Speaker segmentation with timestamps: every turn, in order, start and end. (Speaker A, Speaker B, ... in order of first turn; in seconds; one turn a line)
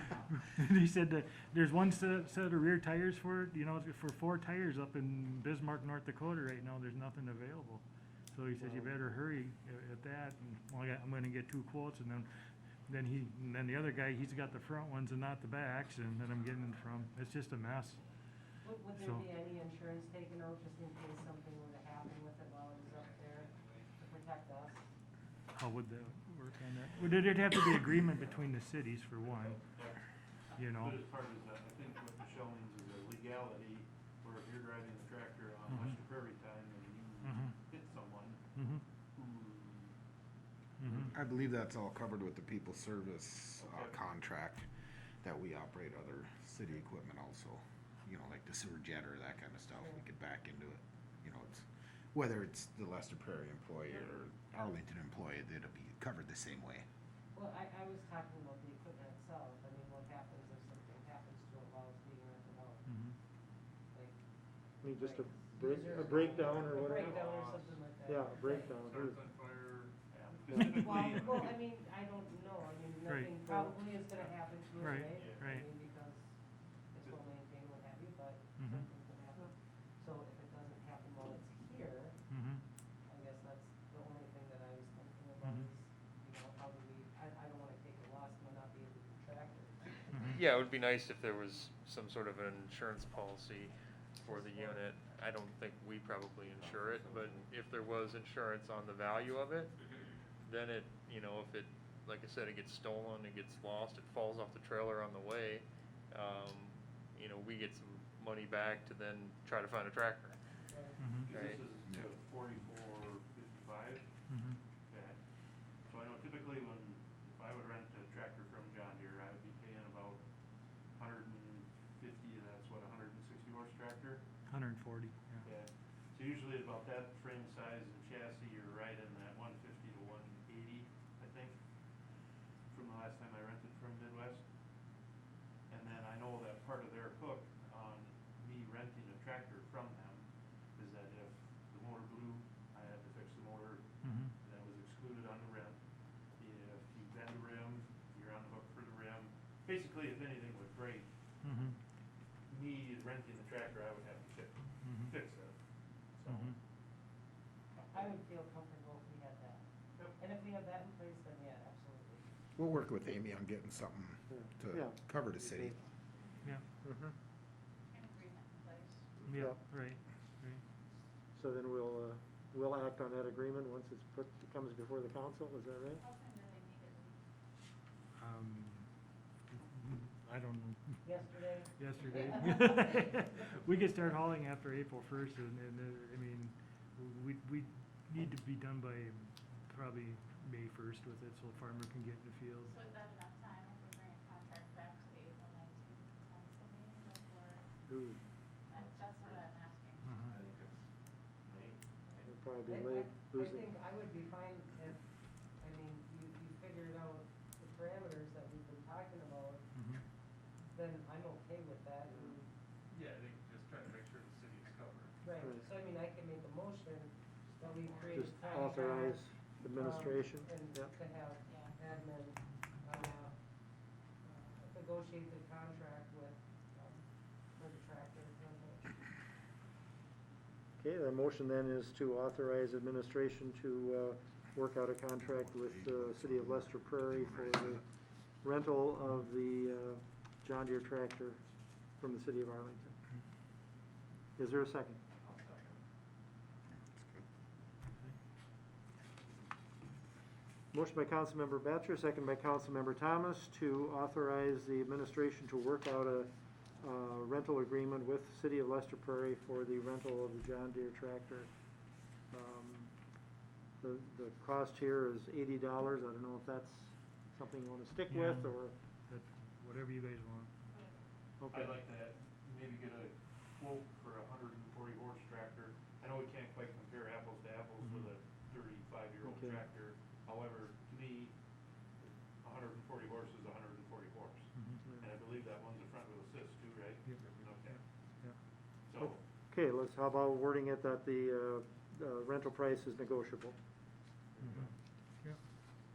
Speaker A: 0.4-12.3
Speaker B: 8.6-8.9
Speaker A: 12.9-18.0
Speaker C: 18.6-24.8
Speaker A: 19.0-19.3
Speaker A: 25.5-29.6
Speaker A: 30.6-31.0
Speaker D: 30.7-38.4
Speaker A: 35.7-36.0
Speaker A: 37.2-37.5
Speaker A: 38.5-38.8
Speaker D: 39.1-39.9
Speaker A: 40.8-41.1
Speaker E: 41.1-44.6
Speaker D: 43.6-44.0
Speaker E: 45.2-56.9
Speaker C: 57.3-62.8
Speaker A: 62.9-63.1
Speaker C: 63.9-64.2
Speaker B: 64.8-67.1
Speaker C: 64.9-68.7
Speaker D: 65.7-67.8
Speaker B: 68.0-69.2
Speaker D: 68.8-71.5
Speaker C: 70.5-76.3
Speaker A: 73.1-73.3
Speaker B: 73.4-73.8
Speaker A: 74.8-75.7
Speaker D: 75.0-75.5
Speaker C: 76.9-82.2
Speaker A: 78.6-78.9
Speaker A: 82.3-82.6
Speaker C: 83.1-90.3
Speaker A: 85.4-85.7
Speaker A: 90.1-90.4
Speaker F: 90.5-93.7
Speaker C: 94.2-94.9
Speaker F: 94.4-99.7
Speaker F: 100.5-110.3
Speaker C: 110.7-111.0
Speaker A: 111.0-111.4
Speaker D: 111.2-114.0
Speaker A: 114.3-114.6
Speaker D: 114.9-115.2
Speaker D: 115.9-120.2
Speaker D: 121.0-124.2
Speaker A: 124.5-125.4
Speaker D: 125.4-131.6
Speaker D: 132.7-134.4
Speaker D: 135.7-140.2
Speaker D: 140.8-143.8
Speaker A: 144.0-144.3
Speaker D: 144.4-145.8
Speaker D: 146.4-151.1
Speaker A: 151.4-151.8
Speaker D: 152.5-155.5
Speaker A: 154.8-155.2
Speaker D: 156.2-156.6
Speaker A: 156.2-156.6
Speaker C: 157.9-159.6
Speaker C: 160.2-162.2
Speaker E: 162.6-165.8
Speaker B: 164.3-165.0
Speaker B: 166.8-167.1
Speaker G: 167.9-169.1
Speaker A: 169.3-170.6
Speaker B: 169.3-169.6
Speaker B: 171.3-176.0
Speaker G: 176.0-177.1
Speaker A: 178.2-178.9
Speaker A: 179.5-181.2
Speaker C: 181.0-182.7
Speaker A: 181.8-192.8
Speaker G: 192.7-197.6
Speaker B: 197.9-198.2
Speaker G: 198.7-200.0
Speaker A: 200.0-200.4
Speaker F: 200.2-200.7
Speaker F: 201.5-201.7
Speaker B: 202.2-203.7
Speaker C: 202.7-205.0
Speaker C: 205.6-209.6
Speaker A: 209.7-210.0
Speaker C: 210.7-212.5
Speaker B: 212.1-212.4
Speaker F: 214.4-215.0
Speaker C: 215.2-219.2
Speaker B: 218.1-220.9
Speaker C: 219.7-223.3
Speaker G: 221.5-221.7
Speaker C: 224.2-227.0
Speaker C: 227.6-229.0
Speaker B: 230.8-237.8
Speaker E: 235.3-237.7
Speaker B: 238.4-241.4
Speaker B: 242.0-242.9
Speaker B: 244.4-245.0
Speaker F: 245.2-245.5
Speaker E: 246.9-247.2
Speaker B: 250.7-261.5
Speaker B: 262.3-262.9
Speaker B: 263.8-268.7
Speaker A: 268.1-270.5
Speaker B: 271.4-271.7
Speaker D: 271.5-281.3
Speaker A: 277.8-278.1
Speaker B: 279.2-279.6
Speaker D: 282.0-287.8
Speaker A: 284.5-284.9
Speaker A: 287.1-288.4
Speaker D: 288.9-289.2
Speaker B: 289.0-293.6
Speaker A: 294.4-294.7